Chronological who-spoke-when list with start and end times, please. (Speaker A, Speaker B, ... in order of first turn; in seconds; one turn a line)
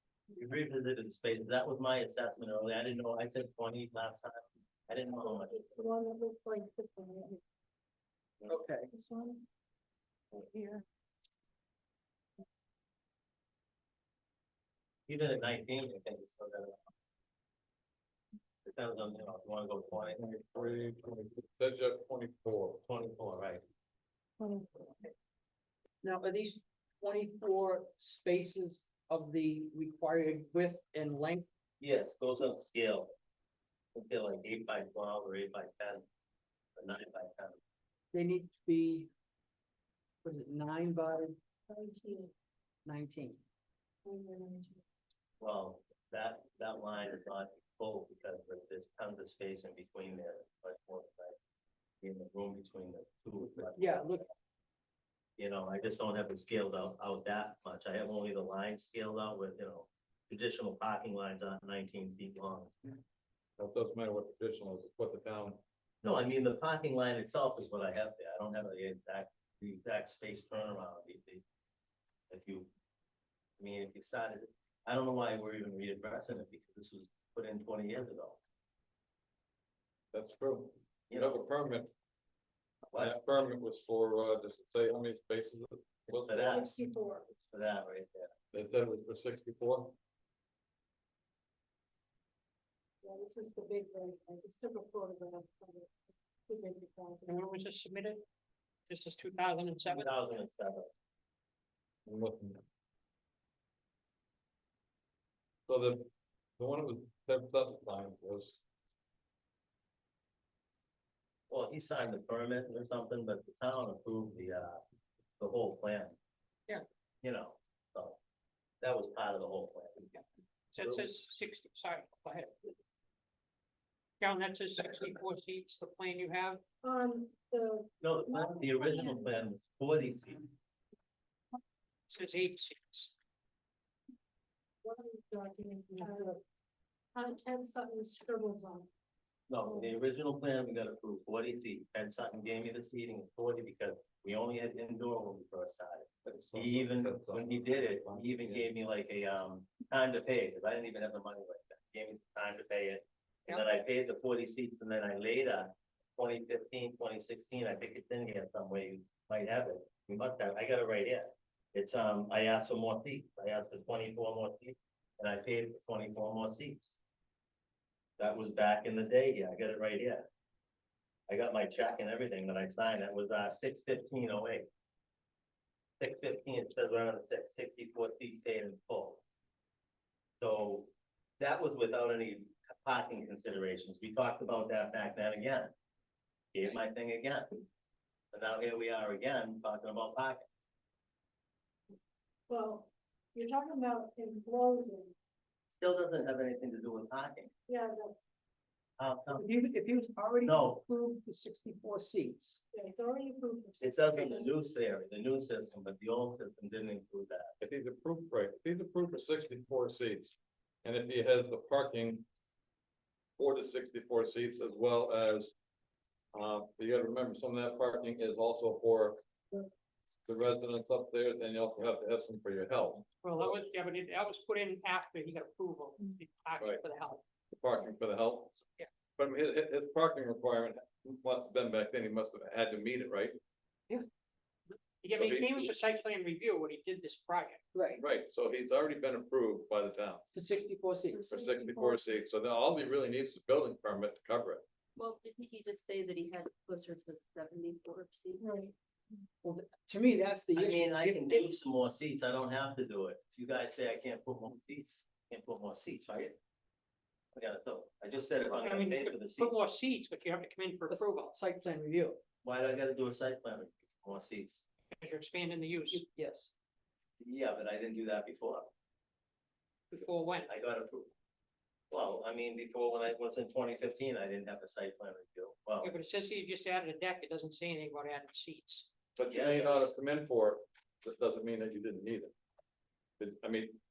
Speaker A: 0.3-5.6
Speaker B: 5.2-7.4
Speaker C: 8.5-8.9
Speaker B: 8.9-9.4
Speaker A: 15.1-16.9
Speaker A: 18.6-20.9
Speaker D: 20.2-22.8
Speaker A: 22.9-23.6
Speaker B: 24.4-24.9
Speaker C: 26.0-31.4
Speaker A: 31.8-33.1
Speaker A: 34.0-36.0
Speaker A: 36.8-37.6
Speaker C: 38.1-39.1
Speaker C: 40.2-41.4
Speaker B: 41.7-42.3
Speaker C: 42.8-43.4
Speaker B: 44.0-44.8
Speaker A: 45.4-51.4
Speaker A: 52.0-54.3
Speaker C: 53.8-54.2
Speaker A: 55.4-62.7
Speaker D: 63.6-65.6
Speaker A: 66.0-71.4
Speaker A: 72.3-72.7
Speaker A: 73.6-78.4
Speaker D: 80.1-81.9
Speaker A: 81.1-81.4
Speaker D: 83.0-86.7
Speaker A: 86.2-86.7
Speaker B: 86.4-87.3
Speaker A: 87.5-88.3
Speaker D: 88.5-90.0
Speaker B: 93.0-97.4
Speaker E: 97.2-98.2
Speaker E: 98.9-100.1
Speaker A: 99.9-100.9
Speaker D: 102.1-102.6
Speaker D: 105.7-108.6
Speaker A: 111.5-114.8
Speaker A: 115.4-116.2
Speaker A: 117.2-118.2
Speaker A: 118.8-120.1
Speaker E: 120.7-122.7
Speaker A: 120.8-121.1
Speaker E: 124.2-126.6
Speaker B: 126.8-129.3
Speaker A: 128.0-130.5
Speaker E: 132.1-133.1
Speaker B: 134.8-136.4
Speaker E: 136.0-136.3
Speaker B: 137.1-138.9
Speaker A: 139.5-167.0
Speaker B: 139.7-139.9
Speaker D: 146.2-148.7
Speaker A: 168.2-170.2
Speaker A: 171.3-174.7
Speaker A: 176.0-179.2
Speaker A: 180.4-185.7
Speaker A: 186.5-187.6
Speaker A: 188.3-190.4
Speaker B: 192.5-195.2
Speaker A: 195.8-197.5
Speaker B: 197.7-198.2
Speaker A: 199.0-199.4
Speaker C: 199.3-202.6
Speaker A: 200.4-200.8
Speaker B: 202.7-204.5
Speaker A: 203.8-207.5
Speaker D: 207.6-212.2
Speaker D: 213.4-215.5
Speaker D: 216.3-219.2
Speaker D: 220.2-223.5
Speaker E: 223.2-227.2
Speaker D: 227.5-228.6
Speaker D: 229.2-233.4
Speaker E: 235.0-237.6
Speaker D: 235.2-235.7
Speaker C: 237.7-238.0
Speaker D: 238.0-240.2
Speaker C: 240.3-241.3
Speaker B: 241.1-242.1
Speaker D: 241.3-244.6
Speaker F: 245.0-248.4
Speaker B: 248.4-248.7
Speaker C: 249.4-251.5
Speaker A: 250.5-256.4
Speaker A: 257.3-259.7
Speaker E: 258.4-261.4
Speaker C: 260.9-262.2
Speaker A: 262.4-264.6
Speaker E: 265.0-266.0
Speaker C: 265.9-266.5
Speaker A: 267.2-268.7
Speaker E: 269.9-270.5
Speaker A: 270.4-271.1
Speaker A: 271.9-275.9
Speaker E: 275.8-278.9
Speaker D: 279.2-282.3
Speaker A: 279.2-279.9
Speaker D: 283.2-283.8